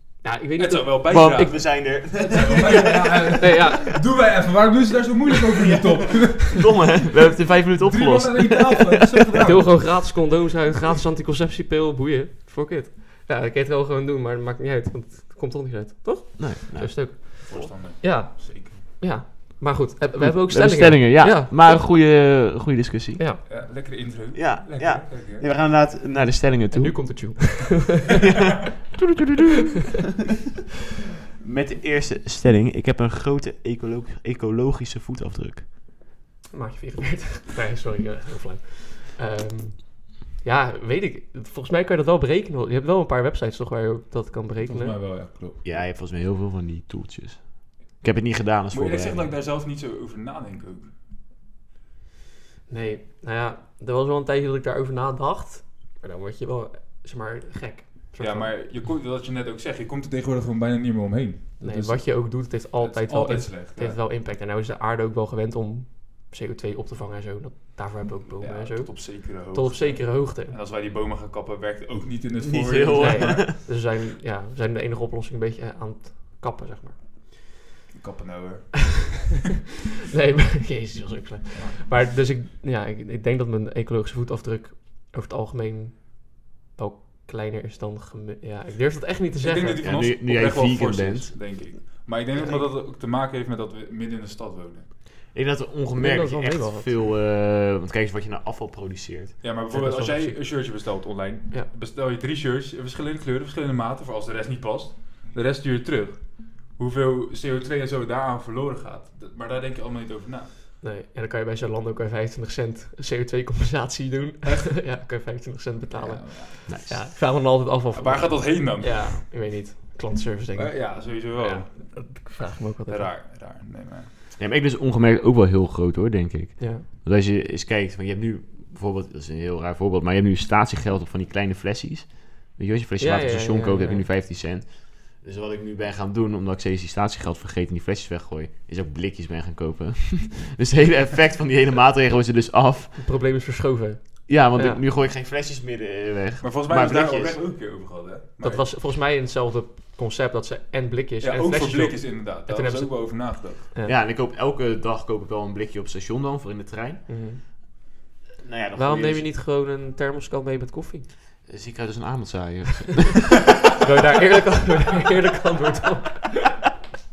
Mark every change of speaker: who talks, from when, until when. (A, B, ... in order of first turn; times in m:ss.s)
0:00.2-0:01.6 A
0:00.6-0:09.9 B
0:01.1-0:03.5 C
0:02.5-0:04.1 A
0:05.6-0:09.5 C
0:09.4-0:21.8 A
0:16.4-0:17.1 C
0:17.4-0:18.8 B
0:20.2-0:23.2 C
0:23.2-0:23.4 A
0:23.5-0:25.4 B
0:24.3-0:27.6 C
0:26.7-0:28.2 A
0:31.4-0:35.7 C
0:36.5-0:45.0 A
0:44.6-0:45.8 B
0:45.6-0:49.3 C
0:48.7-0:50.9 B
0:52.7-0:58.5 A
0:58.2-1:04.0 B
1:01.6-1:10.5 A
1:08.4-1:13.5 B
1:12.4-1:13.5 C
1:13.0-1:17.0 A
1:17.9-1:19.3 B
1:20.1-1:29.8 A
1:21.5-1:21.8 B
1:29.4-1:34.9 B
1:29.8-1:31.4 C
1:32.3-1:32.7 A
1:35.3-1:39.4 C
1:36.0-1:37.0 A
1:39.4-1:50.5 B
1:39.7-1:40.9 A
1:50.8-2:03.1 A
1:54.4-1:54.8 B
1:55.9-1:57.0 B
1:56.7-1:57.0 C
1:57.9-1:59.2 B
2:00.6-2:02.2 B
2:02.9-2:04.1 B
2:04.4-2:23.0 C
2:06.6-2:06.9 A
2:13.0-2:14.0 A
2:23.0-2:24.8 A
2:24.3-2:27.4 C
2:26.4-2:28.7 B
2:28.4-2:33.9 A
2:31.2-2:33.7 B
2:33.8-2:37.1 C
2:37.1-2:37.4 A
2:38.4-2:39.3 C
2:38.8-2:41.1 A
2:41.5-2:43.5 C
2:43.8-2:46.6 A